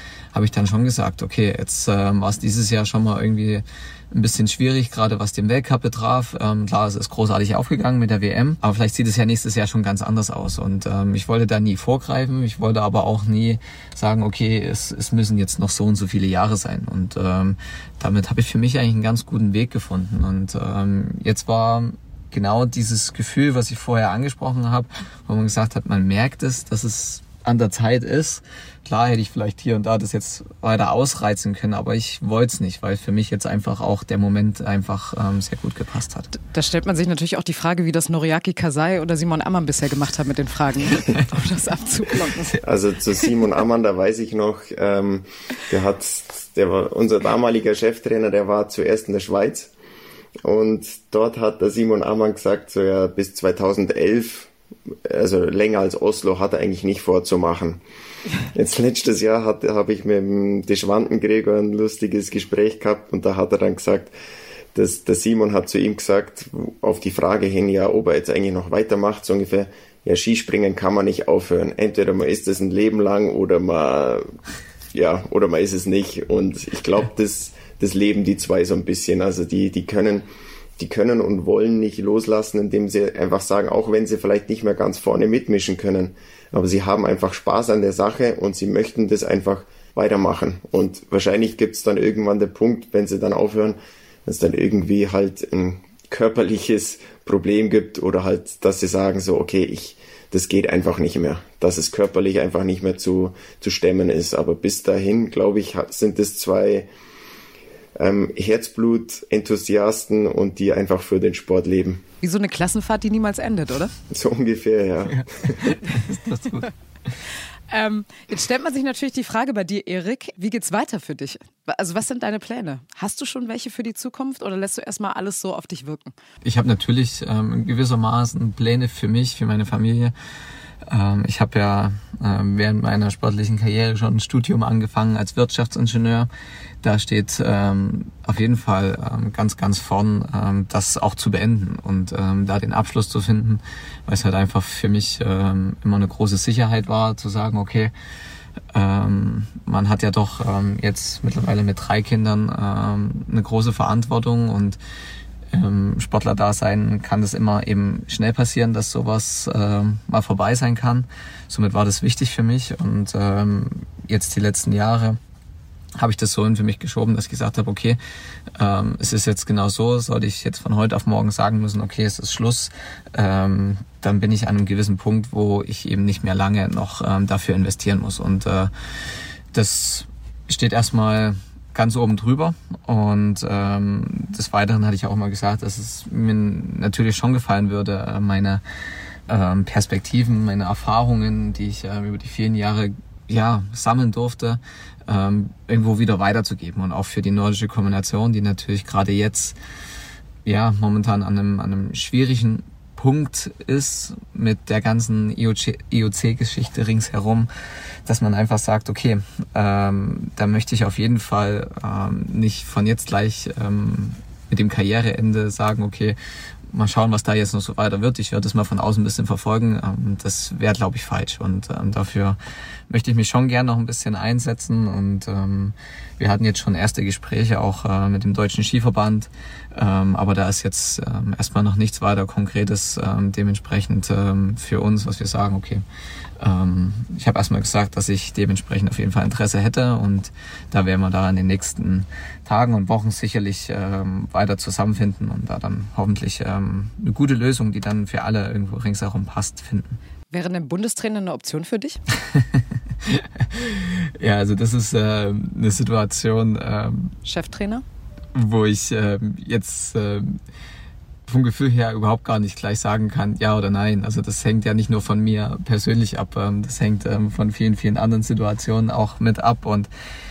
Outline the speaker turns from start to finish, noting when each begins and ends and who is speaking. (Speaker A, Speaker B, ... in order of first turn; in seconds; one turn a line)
Speaker A: 0.3-36.3
Speaker B: 36.4-42.6
Speaker C: 42.6-49.7
Speaker C: 50.4-54.5
Speaker C: 55.1-57.8
Speaker C: 58.5-64.1
Speaker C: 64.8-74.3
Speaker C: 74.9-106.9
Speaker C: 108.0-112.0
Speaker B: 112.2-113.9
Speaker C: 114.1-115.7
Speaker A: 115.1-116.7
Speaker B: 117.7-126.1
Speaker A: 126.4-130.1
Speaker A: 130.9-136.3
Speaker A: 136.8-147.9
Speaker A: 148.7-154.8
Speaker A: 155.5-165.2
Speaker A: 166.0-168.0
Speaker A: 168.6-178.7
Speaker A: 179.5-188.6
Speaker A: 189.3-199.6
Speaker A: 200.4-207.5
Speaker A: 208.1-216.2
Speaker A: 216.7-222.4
Speaker A: 222.9-235.8
Speaker A: 236.4-250.0
Speaker B: 250.3-252.0
Speaker A: 252.3-257.1
Speaker B: 257.2-257.9
Speaker A: 258.4-260.4
Speaker A: 261.3-269.9